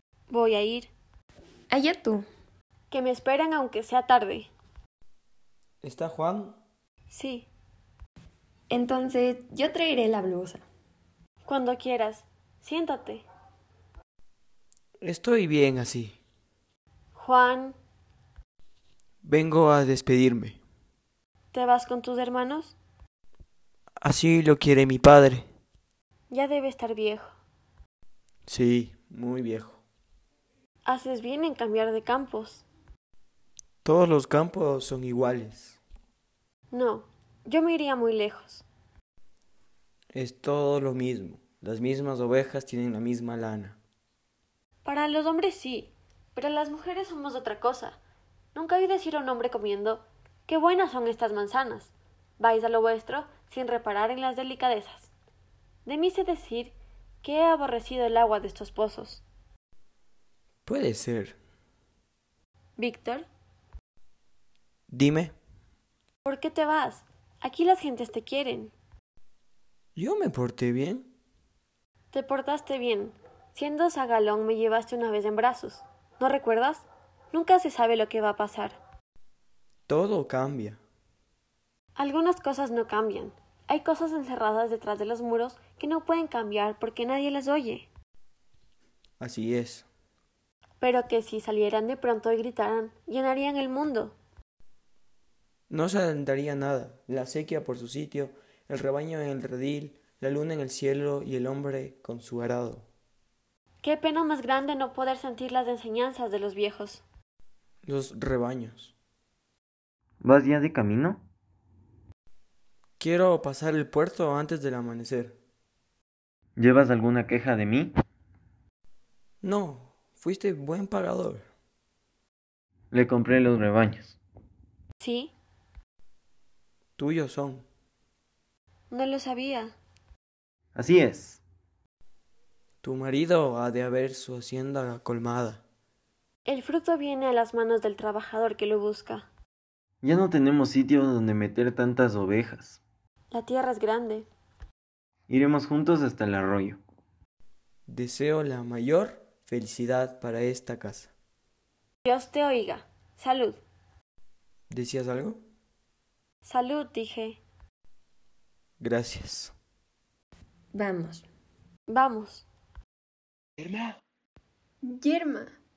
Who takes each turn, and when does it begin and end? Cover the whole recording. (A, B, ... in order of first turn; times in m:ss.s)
0:00.3-0:00.9 A
0:01.7-0:02.3 B
0:02.9-0:04.5 A
0:05.8-0:06.6 C
0:07.1-0:07.5 A
0:08.7-0:10.6 B
0:11.4-0:13.2 A
0:15.0-0:16.2 C
0:17.2-0:17.8 A
0:19.2-0:20.6 C
0:21.5-0:22.8 A
0:24.0-0:25.5 C
0:26.3-0:27.4 A
0:28.5-0:29.8 C
0:30.8-0:32.6 A
0:33.8-0:35.8 C
0:36.7-0:38.6 A
0:40.1-0:43.8 C
0:44.8-0:48.0 A
0:48.5-0:55.1 A
0:55.8-0:59.2 A
1:00.7-1:01.4 C
1:02.8-1:03.3 A
1:04.9-1:05.4 C
1:06.2-1:08.7 A
1:10.0-1:11.1 C
1:12.1-1:18.8 A
1:19.9-1:20.8 C
1:22.0-1:27.9 A
1:29.2-1:29.9 C
1:30.8-1:34.2 A
1:35.7-1:42.9 C
1:43.8-1:47.0 A
1:47.8-1:48.9 C
1:50.2-1:51.2 D
1:53.0-1:55.4 C
1:56.6-1:57.9 D
1:59.4-2:01.5 C
2:02.9-2:04.2 D
2:05.0-2:05.3 A
2:07.0-2:07.6 C
2:08.9-2:09.8 A
2:10.8-2:11.4 D
2:12.8-2:15.6 C
2:16.5-2:19.3 A
2:20.0-2:22.8 D
2:23.3-2:24.3 A
2:25.3-2:26.8 D
2:27.9-2:31.1 C
2:32.0-2:33.6 A
2:34.7-2:35.4 C
2:36.4-2:37.4 A
2:38.8-2:39.6 C
2:40.7-2:41.2 B
2:41.9-2:42.4 A
2:44.8-2:45.5 B